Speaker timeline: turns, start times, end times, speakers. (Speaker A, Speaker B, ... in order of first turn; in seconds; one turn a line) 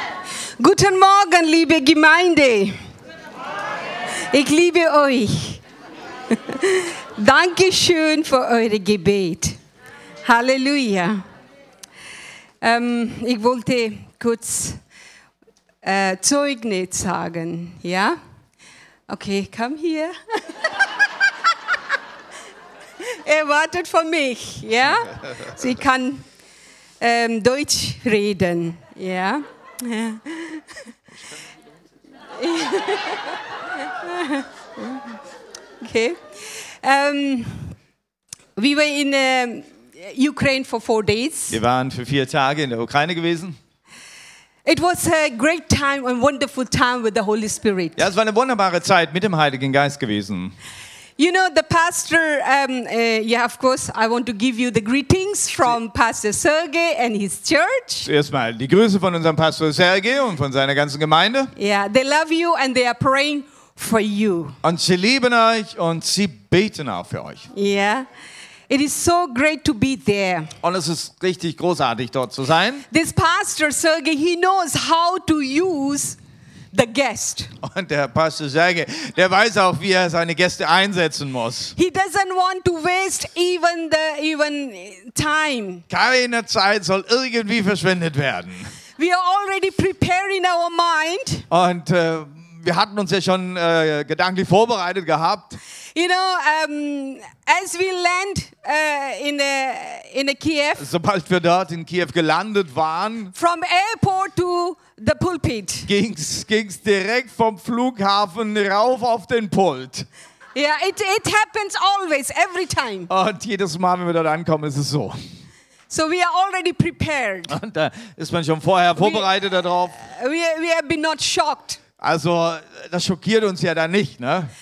Speaker A: 0.6-2.8
Speaker A: 4.2-5.6
Speaker A: 6.3-9.6
Speaker A: 10.2-11.2
Speaker A: 12.6-14.8
Speaker A: 15.8-18.2
Speaker A: 19.1-20.9
Speaker A: 23.0-26.2
Speaker A: 27.0-30.8
Speaker A: 32.4-35.1
Speaker A: 35.8-37.7
Speaker A: 38.6-41.6
Speaker B: 41.5-43.6
Speaker A: 44.6-48.1
Speaker B: 48.0-50.5
Speaker A: 51.2-58.1
Speaker B: 58.1-61.5
Speaker A: 61.6-64.6
Speaker B: 64.6-67.5
Speaker A: 67.5-68.1
Speaker A: 68.7-70.5
Speaker B: 70.6-72.9
Speaker A: 72.9-76.2
Speaker A: 76.7-77.5
Speaker B: 77.6-81.8
Speaker A: 81.8-85.8
Speaker B: 85.9-88.7
Speaker A: 89.0-91.5
Speaker B: 91.5-95.6
Speaker A: 96.0-100.9
Speaker B: 100.8-103.3
Speaker A: 103.3-105.9
Speaker B: 105.9-110.1
Speaker A: 110.6-113.1
Speaker B: 113.1-115.2
Speaker A: 115.9-117.5
Speaker B: 117.5-120.0
Speaker A: 119.0-119.3
Speaker A: 120.0-121.8
Speaker B: 122.0-124.5